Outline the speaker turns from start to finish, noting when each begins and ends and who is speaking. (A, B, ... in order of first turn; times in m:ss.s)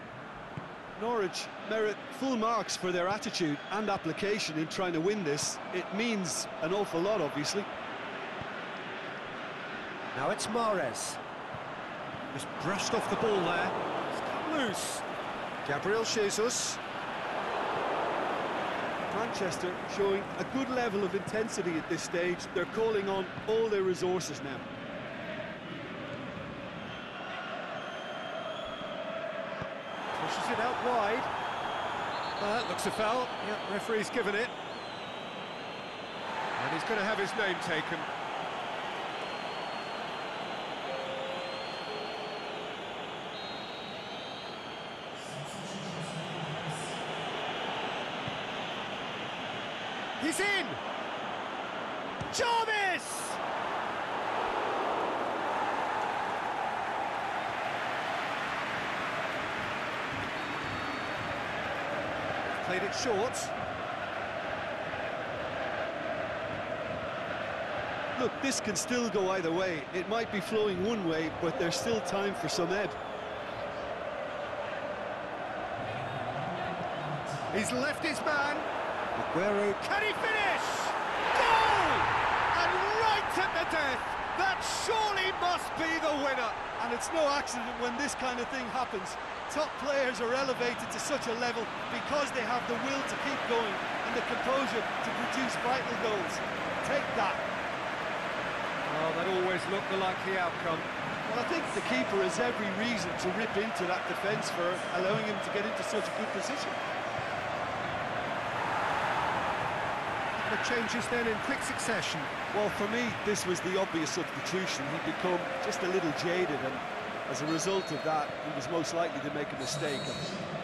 0:01.0-0:07.7 A
0:10.1-0:11.2 B
0:12.3-0:15.0 B
0:15.6-0:16.8 B
0:19.1-0:24.7 A
0:30.1-0:31.3 B
0:32.4-0:34.5 B
0:36.6-0:38.1 B
0:45.7-0:46.0 B
0:50.2-0:50.8 B
0:52.3-0:53.4 B
1:02.6-1:03.5 B
1:08.2-1:13.0 A
1:17.5-1:26.6 B
1:26.8-1:37.4 A
1:38.8-1:40.9 B
1:41.2-1:46.8 A
1:50.3-1:52.3 B
1:52.5-2:00.4 A